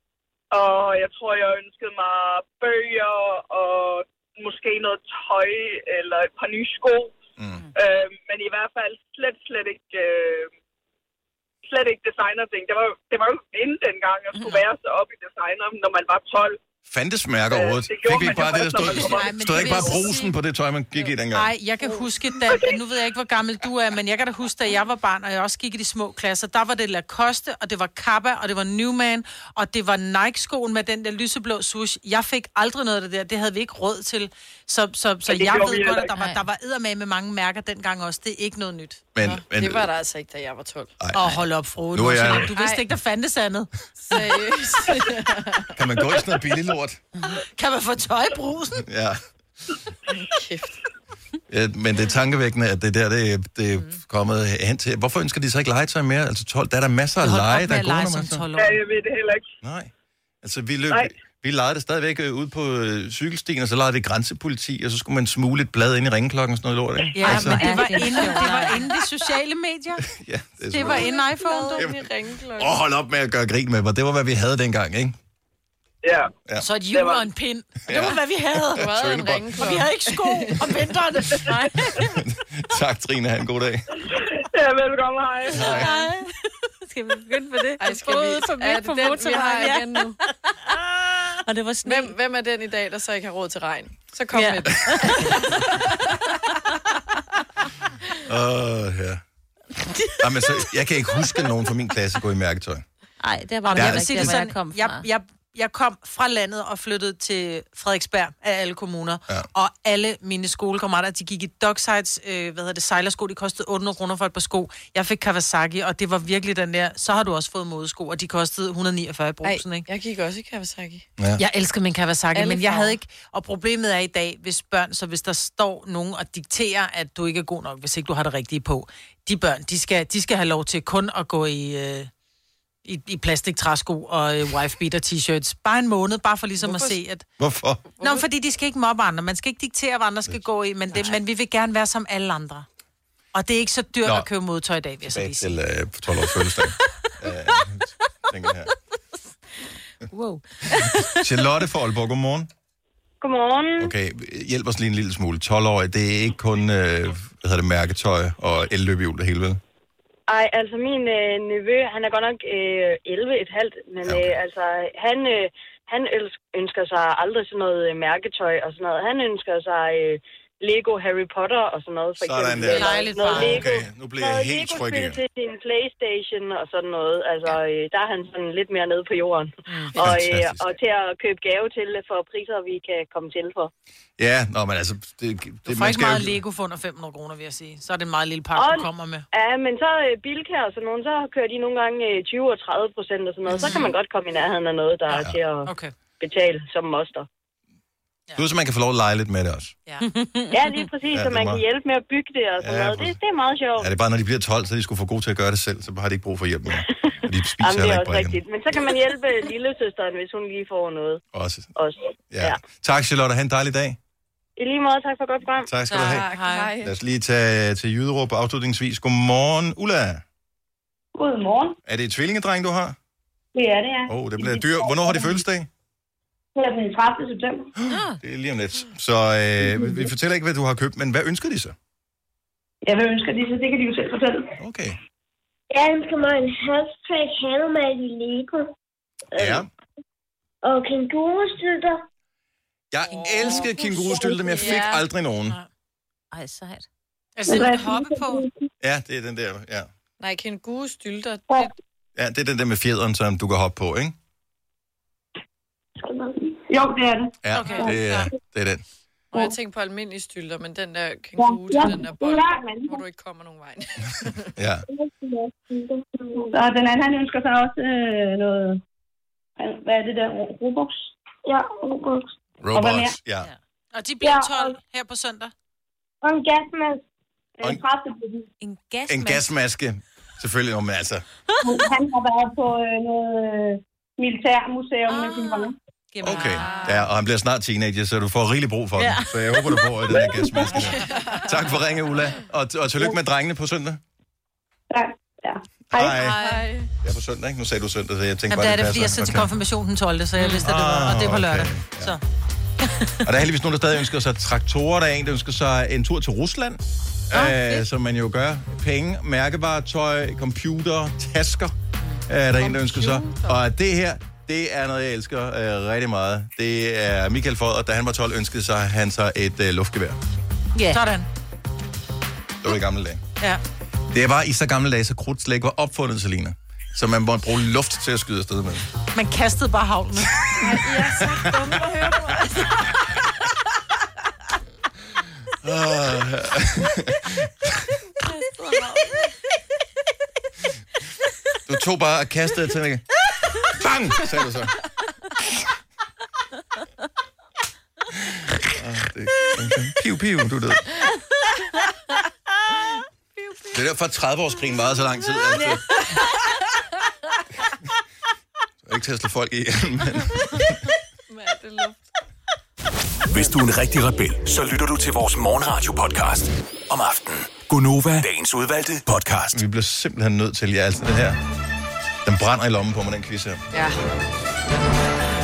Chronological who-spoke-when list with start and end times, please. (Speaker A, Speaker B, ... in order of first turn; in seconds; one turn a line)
Speaker A: 0.5-7.2
Speaker B: 7.4-7.6
Speaker A: 7.7-10.5
Speaker A: 11.6-16.6
Speaker C: 14.4-14.6
Speaker B: 16.9-21.5
Speaker A: 17.5-19.9
Speaker C: 18.8-20.4
Speaker C: 21.3-39.0
Speaker A: 35.3-36.0
Speaker D: 36.1-36.4
Speaker B: 39.1-39.9
Speaker E: 39.2-41.0
Speaker B: 41.0-41.4
Speaker C: 41.1-44.1
Speaker B: 41.9-42.5
Speaker E: 42.4-42.9
Speaker E: 44.0-45.7
Speaker B: 45.7-47.0
Speaker C: 47.3-48.9
Speaker B: 48.8-49.2
Speaker E: 50.1-50.7
Speaker B: 51.5-58.4
Speaker C: 57.2-58.8
Speaker A: 58.5-59.5
Speaker B: 59.6-68.0
Speaker C: 67.1-70.0
Speaker D: 67.2-68.9
Speaker B: 70.0-71.1
Speaker C: 70.7-71.9
Speaker E: 70.7-72.8
Speaker B: 71.8-75.2
Speaker A: 76.0-76.3
Speaker C: 76.6-81.6
Speaker A: 76.9-77.3
Speaker B: 77.8-79.6
Speaker E: 78.7-80.9
Speaker D: 81.3-82.0
Speaker B: 81.9-83.9
Speaker A: 84.4-85.9
Speaker B: 85.5-85.9
Speaker D: 85.5-86.3
Speaker D: 86.9-90.3
Speaker E: 87.8-90.2
Speaker D: 91.4-92.1
Speaker E: 91.8-96.0
Speaker D: 94.3-95.3
Speaker B: 98.2-99.2
Speaker B: 100.2-102.8
Speaker D: 103.2-105.0
Speaker C: 103.6-119.9
Speaker B: 103.7-104.4
Speaker E: 119.4-121.0
Speaker B: 121.2-121.4
Speaker C: 121.3-132.1
Speaker E: 122.3-123.0
Speaker C: 132.8-137.2
Speaker E: 136.6-137.0
Speaker B: 137.4-137.8
Speaker E: 137.9-138.2
Speaker C: 138.0-142.7
Speaker C: 143.3-145.5
Speaker B: 145.1-148.7
Speaker D: 150.1-151.2
Speaker B: 150.7-152.5
Speaker F: 153.2-153.9
Speaker B: 153.8-159.6
Speaker F: 160.3-183.7
Speaker B: 164.0-164.4
Speaker B: 172.2-175.2
Speaker C: 172.7-173.7
Speaker C: 179.7-180.0
Speaker B: 179.9-180.7
Speaker B: 184.2-186.4
Speaker C: 185.7-189.2
Speaker F: 188.5-197.3
Speaker C: 193.5-193.9
Speaker B: 195.1-195.4
Speaker C: 195.7-195.9
Speaker B: 198.3-199.7
Speaker D: 200.1-200.6
Speaker F: 200.5-203.9
Speaker B: 201.1-201.6
Speaker B: 202.6-203.2
Speaker B: 203.8-208.4
Speaker F: 207.6-211.2
Speaker B: 211.3-211.7
Speaker F: 211.8-212.6
Speaker B: 212.3-214.0
Speaker F: 214.6-215.7
Speaker B: 215.7-216.3
Speaker C: 215.9-216.7
Speaker E: 215.9-216.9
Speaker B: 216.8-220.2
Speaker G: 221.1-221.8
Speaker B: 221.8-222.9
Speaker G: 223.5-225.4
Speaker B: 224.1-225.7
Speaker G: 226.5-227.7
Speaker B: 227.8-231.7
Speaker D: 227.9-228.2
Speaker G: 229.6-230.1
Speaker G: 232.8-234.5
Speaker B: 234.6-235.0
Speaker H: 235.7-238.7
Speaker H: 239.3-239.7
Speaker B: 239.3-239.7
Speaker H: 240.6-242.0
Speaker B: 242.9-245.6
Speaker C: 243.1-243.5
Speaker G: 244.1-244.6
Speaker E: 244.2-245.0
Speaker D: 246.3-246.8
Speaker C: 247.3-248.4
Speaker G: 247.5-248.5
Speaker B: 248.8-249.9
Speaker E: 250.2-251.7
Speaker G: 251.5-251.7
Speaker B: 252.2-254.2
Speaker G: 256.6-257.9
Speaker B: 257.4-258.8
Speaker C: 257.5-258.3
Speaker E: 259.3-264.5
Speaker G: 261.4-263.0
Speaker B: 264.6-264.9
Speaker G: 264.9-265.5
Speaker H: 265.8-266.4
Speaker G: 266.2-268.8
Speaker G: 269.6-270.9
Speaker H: 271.5-272.2
Speaker B: 272.6-273.5
Speaker G: 272.7-273.1
Speaker C: 273.9-275.5
Speaker G: 274.2-274.7
Speaker G: 276.2-277.0
Speaker G: 277.6-278.5
Speaker D: 278.6-279.5
Speaker B: 279.1-281.2
Speaker G: 281.6-285.8
Speaker D: 286.1-287.1
Speaker B: 286.2-294.0
Speaker C: 286.3-286.9
Speaker E: 286.5-286.9
Speaker D: 289.0-289.9
Speaker G: 290.1-290.7
Speaker E: 291.1-291.4
Speaker G: 294.9-296.2
Speaker B: 295.9-296.4
Speaker E: 296.1-296.9
Speaker B: 297.0-299.5
Speaker C: 298.5-302.2
Speaker D: 300.4-300.6
Speaker B: 300.6-302.2
Speaker B: 303.2-311.8
Speaker D: 307.3-307.8
Speaker B: 312.3-320.2
Speaker D: 320.7-321.0
Speaker C: 320.9-321.3
Speaker B: 322.6-323.2
Speaker B: 324.1-328.9
Speaker C: 329.1-330.8
Speaker B: 330.4-332.0
Speaker E: 330.6-332.9
Speaker B: 335.6-337.9
Speaker E: 338.8-339.0
Speaker B: 341.6-343.1
Speaker B: 343.6-344.7
Speaker B: 348.3-350.9
Speaker B: 353.7-356.0
Speaker E: 355.5-356.2
Speaker B: 358.8-360.8
Speaker E: 361.3-362.0
Speaker I: 363.3-369.6
Speaker B: 369.5-371.4
Speaker B: 372.2-373.6
Speaker E: 373.7-374.0